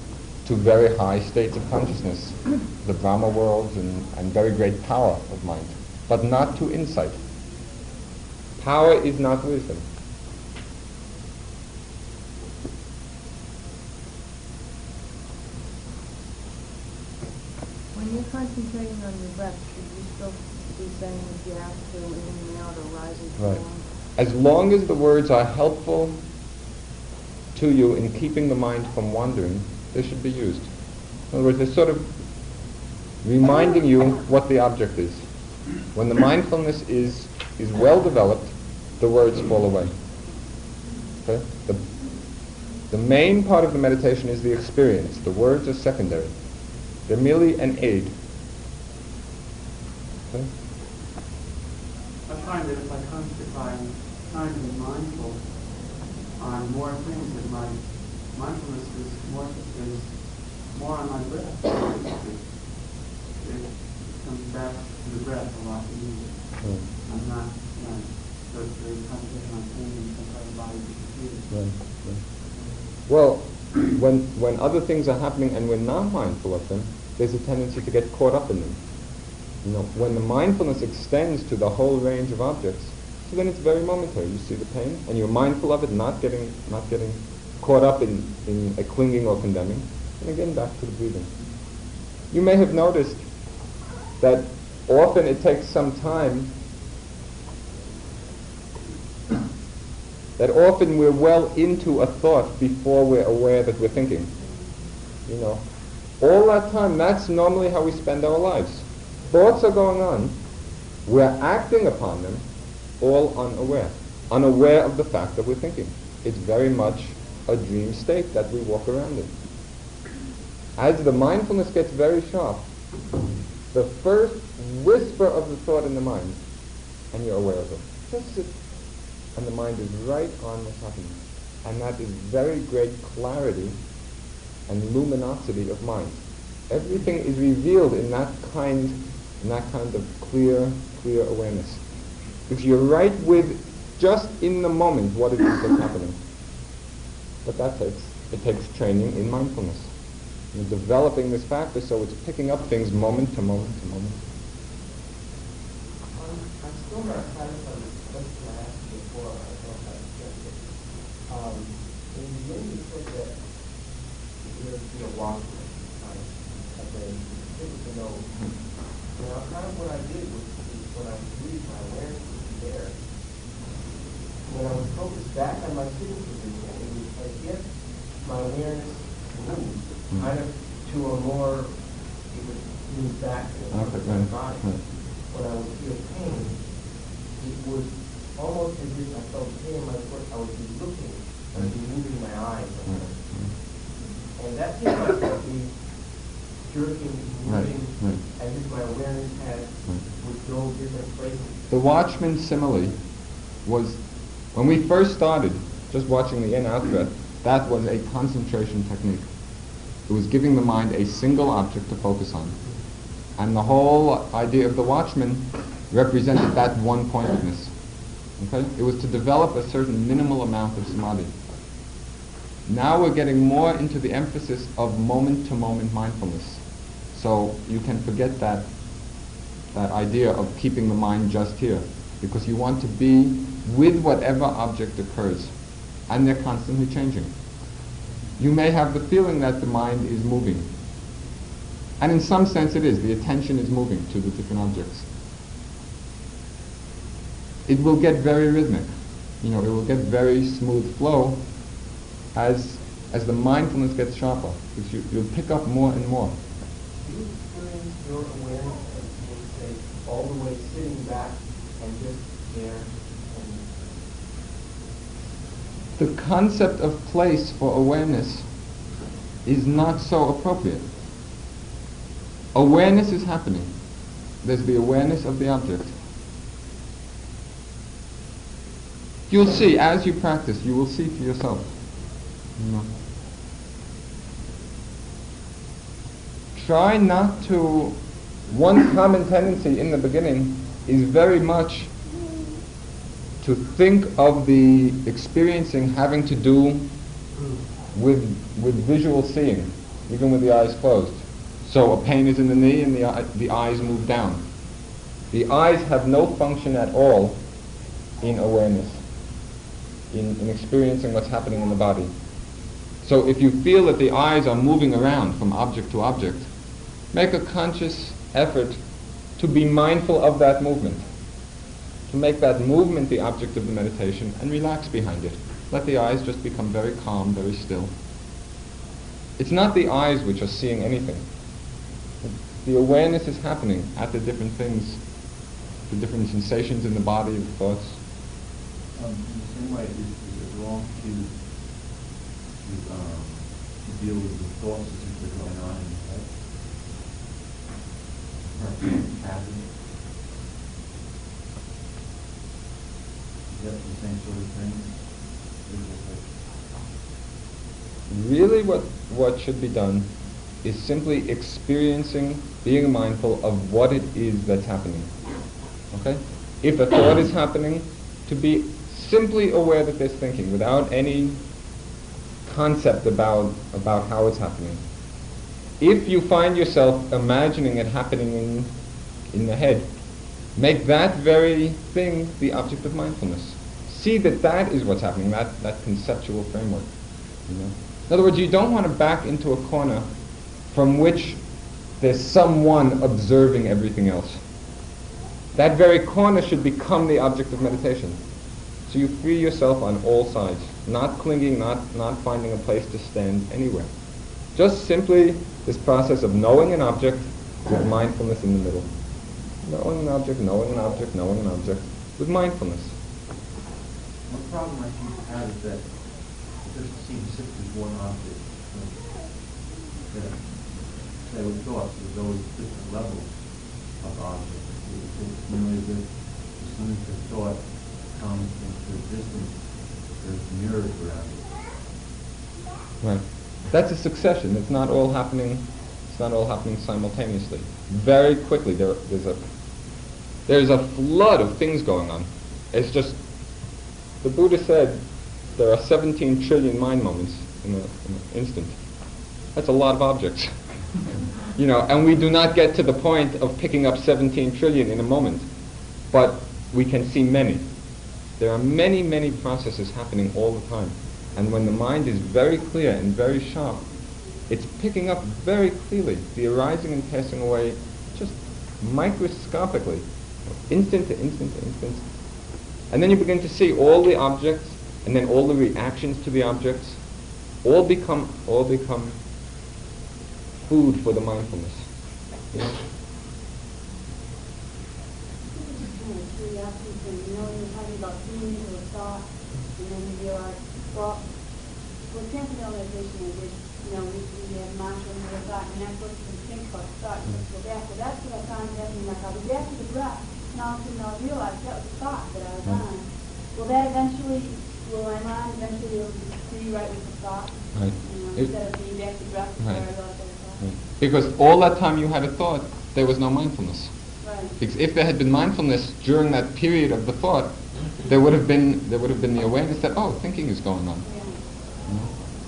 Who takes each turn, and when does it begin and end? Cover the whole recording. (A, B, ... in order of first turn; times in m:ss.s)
0:00.4-0:07.2 A
0:08.6-0:09.8 A
0:17.9-0:23.8 B
0:23.4-0:23.6 A
0:24.2-0:26.2 A
0:27.5-0:30.7 A
0:31.3-0:32.1 A
0:33.2-0:35.2 A
0:35.9-0:39.9 A
0:41.2-0:41.8 A
0:42.9-0:46.3 A
0:47.1-0:48.1 A
0:52.3-0:53.6 C
0:57.0-0:57.4 C
0:58.6-0:59.7 C
1:00.8-1:02.4 C
1:05.3-1:05.9 D
1:06.6-1:06.9 A
1:07.1-1:11.4 D
1:11.5-1:12.2 A
1:13.1-1:18.8 A
1:19.6-1:31.3 A
1:32.3-1:33.2 A
1:34.2-1:36.5 A
1:40.4-1:44.3 A
1:45.3-1:45.6 A
1:46.2-1:50.3 A
1:51.0-1:52.4 A
1:53.0-1:59.3 A
2:00.8-2:02.6 A
2:03.7-2:06.4 A
2:07.1-2:08.5 A
2:09.3-2:13.8 A
2:14.7-2:21.8 A
2:22.5-2:26.2 A
2:27.4-2:29.9 A
2:30.5-2:34.2 A
2:36.1-2:43.4 C
2:44.4-2:48.6 C
2:49.1-2:53.0 C
2:54.4-3:06.8 C
3:03.7-3:04.8 A
3:07.3-3:13.2 C
3:12.8-3:13.5 A
3:14.4-3:15.8 C
3:16.6-3:21.6 C
3:17.4-3:18.2 A
3:21.7-3:23.0 A
3:23.6-3:24.0 A
3:24.5-3:29.2 A
3:30.1-3:32.6 A
3:33.4-3:37.7 A
3:38.4-3:41.3 A
3:42.6-3:46.6 A
3:47.1-3:48.7 A
3:49.7-3:55.5 A
3:56.1-3:57.3 A
3:58.4-4:00.7 A
4:02.0-4:05.1 A
4:07.7-4:08.9 A
4:09.4-4:11.4 A
4:12.3-4:16.4 A
4:17.0-4:23.8 C
4:26.0-4:28.4 A
4:29.4-4:30.8 A
4:32.5-4:33.7 A
4:34.4-4:35.9 A
4:39.3-4:41.7 A
4:42.6-4:42.9 A
4:46.5-4:48.0 A
4:48.5-4:51.9 A
4:53.4-4:56.8 A
4:57.9-5:04.4 A
5:05.3-5:07.4 A
5:08.2-5:09.0 A
5:10.1-5:12.1 A
5:13.0-5:16.5 A
5:17.1-5:18.8 A
5:19.4-5:21.0 A
5:22.1-5:27.9 A
5:29.4-5:31.2 A
5:32.2-5:35.0 A
5:35.9-5:38.0 A
5:39.0-5:41.3 E
5:42.6-5:46.3 E
5:48.6-5:49.6 E
5:53.5-5:54.9 E
5:55.7-5:56.2 E
5:58.1-6:00.1 A
6:00.6-6:05.1 A
6:05.9-6:11.4 A
6:12.4-6:14.8 A
6:15.8-6:18.7 A
6:19.3-6:19.9 A
6:20.6-6:26.9 A
6:27.5-6:30.1 A
6:30.7-6:31.4 A
6:32.0-6:34.4 A
6:35.6-6:38.2 A
6:38.9-6:43.9 A
6:44.5-6:48.9 A
6:49.6-6:52.9 A
6:54.3-6:55.8 E
6:56.9-6:58.3 E
7:01.4-7:02.4 E
7:04.1-7:06.0 E
7:06.7-7:07.5 E
7:08.2-7:09.5 E
7:10.3-7:11.3 E
7:13.0-7:19.4 A
7:20.5-7:23.2 A
7:24.2-7:25.0 A
7:25.6-7:28.8 A
7:29.5-7:30.6 A
7:31.5-7:35.5 A
7:36.1-7:37.7 A
7:38.4-7:43.8 A
7:44.5-7:50.0 A
7:50.7-7:52.0 A
7:52.9-7:57.0 A
7:57.6-7:59.2 A
8:00.7-8:01.8 A
8:02.5-8:02.8 A
8:05.6-8:11.2 F
8:12.1-8:30.7 F
8:27.7-8:28.5 A
8:29.6-8:29.8 A
8:30.6-8:33.9 A
8:34.2-8:34.5 F
8:34.6-8:37.5 A
8:38.0-8:41.0 A
8:41.0-8:41.4 F